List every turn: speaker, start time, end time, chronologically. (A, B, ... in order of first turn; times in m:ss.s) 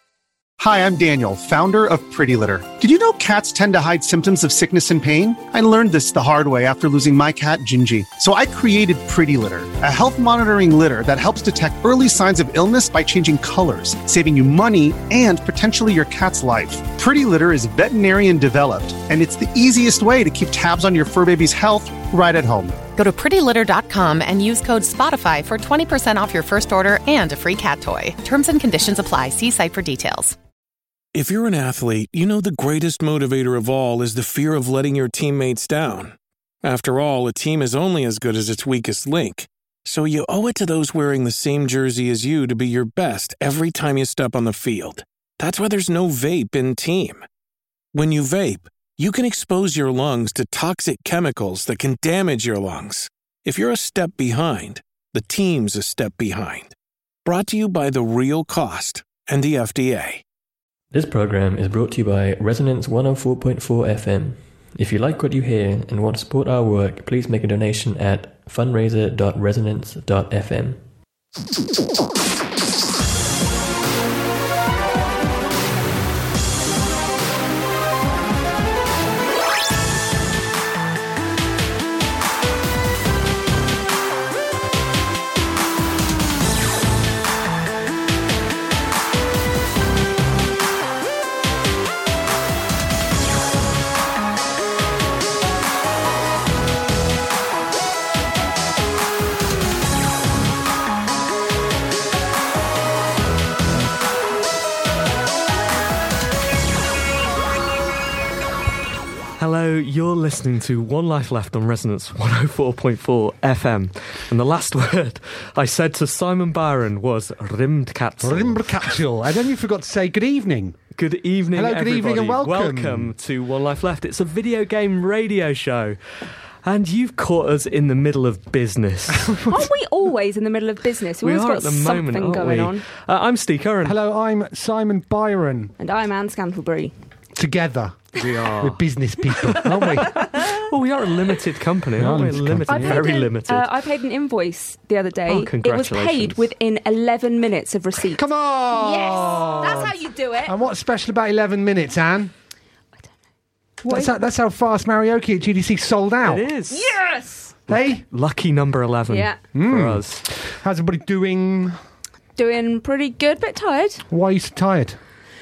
0:00.6-0:22.9 A
0:22.9-0:30.4 B
0:31.1-0:47.2 C
0:47.9-0:56.7 C
0:57.2-1:00.2 C
1:00.9-1:10.8 D
1:49.4-1:58.9 E
1:58.2-2:00.8 F
2:00.9-2:06.0 E
2:01.5-2:03.1 F
2:06.6-2:09.3 E
2:09.2-2:09.6 F
2:09.4-2:12.8 G
2:11.2-2:14.0 E
2:13.8-2:15.7 F
2:15.8-2:16.9 G
2:17.3-2:20.4 F
2:18.2-2:18.8 E
2:19.5-2:23.6 E
2:22.0-2:23.2 F
2:22.7-2:30.5 G
2:25.3-2:26.4 E
2:28.1-2:32.3 F
2:33.8-2:36.5 F
2:36.2-2:36.9 E
2:36.7-2:37.6 G
2:37.7-2:38.0 F
2:37.7-2:40.2 E
2:39.1-2:39.4 G
2:39.5-2:41.8 F
2:42.4-2:44.0 G
2:44.1-2:45.0 F